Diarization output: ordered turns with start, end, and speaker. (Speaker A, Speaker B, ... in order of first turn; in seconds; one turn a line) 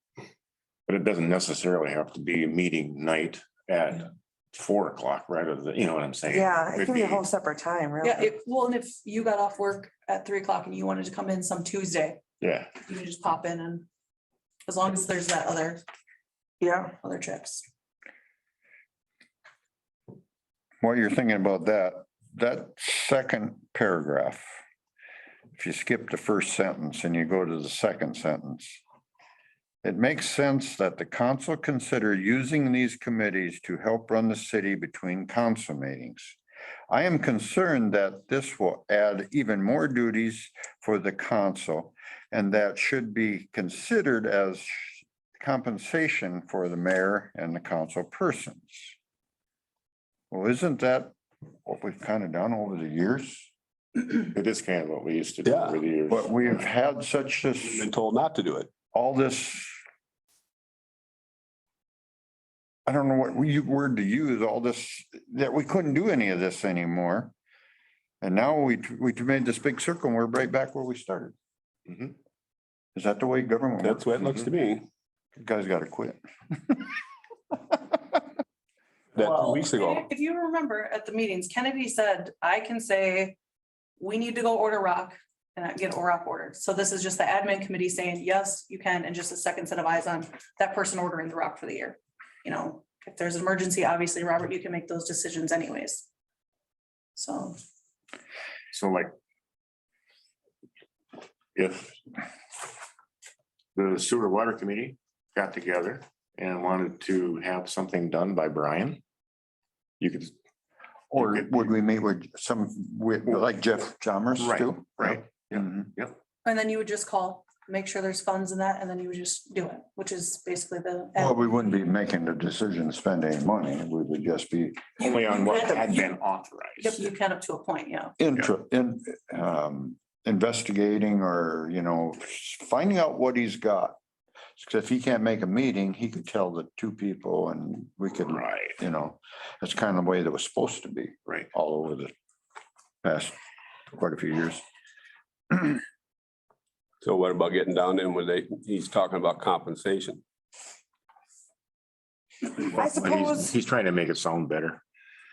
Speaker A: 0.9-7.3
Speaker B: 6.3-8.3
Speaker C: 8.0-12.2
Speaker A: 12.4-12.7
Speaker C: 12.8-13.9
Speaker C: 14.7-15.8
Speaker B: 16.6-16.9
Speaker C: 17.0-17.6
Speaker D: 20.8-24.6
Speaker D: 25.6-28.8
Speaker D: 29.8-36.4
Speaker D: 36.9-49.0
Speaker D: 50.3-53.5
Speaker A: 54.1-56.7
Speaker E: 55.4-55.8
Speaker D: 56.1-57.9
Speaker E: 57.6-58.7
Speaker D: 58.9-59.8
Speaker D: 62.9-67.3
Speaker D: 68.2-71.3
Speaker A: 71.9-72.2
Speaker D: 73.0-74.1
Speaker E: 73.8-74.9
Speaker D: 75.4-76.9
Speaker D: 77.7-78.0
Speaker E: 79.2-80.1
Speaker C: 79.2-83.4
Speaker C: 84.0-96.1
Speaker C: 97.2-97.6
Speaker A: 98.7-99.1
Speaker A: 101.5-102.0
Speaker A: 103.8-109.0
Speaker A: 110.0-110.3
Speaker D: 111.1-115.9
Speaker A: 111.1-111.7
Speaker A: 114.4-116.2
Speaker C: 116.5-121.7
Speaker D: 121.2-125.1
Speaker C: 125.0-126.1
Speaker A: 125.0-127.1
Speaker C: 126.8-128.2
Speaker D: 128.2-134.0
Speaker D: 134.6-142.1
Speaker A: 138.2-138.8
Speaker D: 143.0-143.4
Speaker D: 143.9-144.6
Speaker E: 147.0-150.2
Speaker A: 152.5-154.8
Speaker B: 152.7-153.6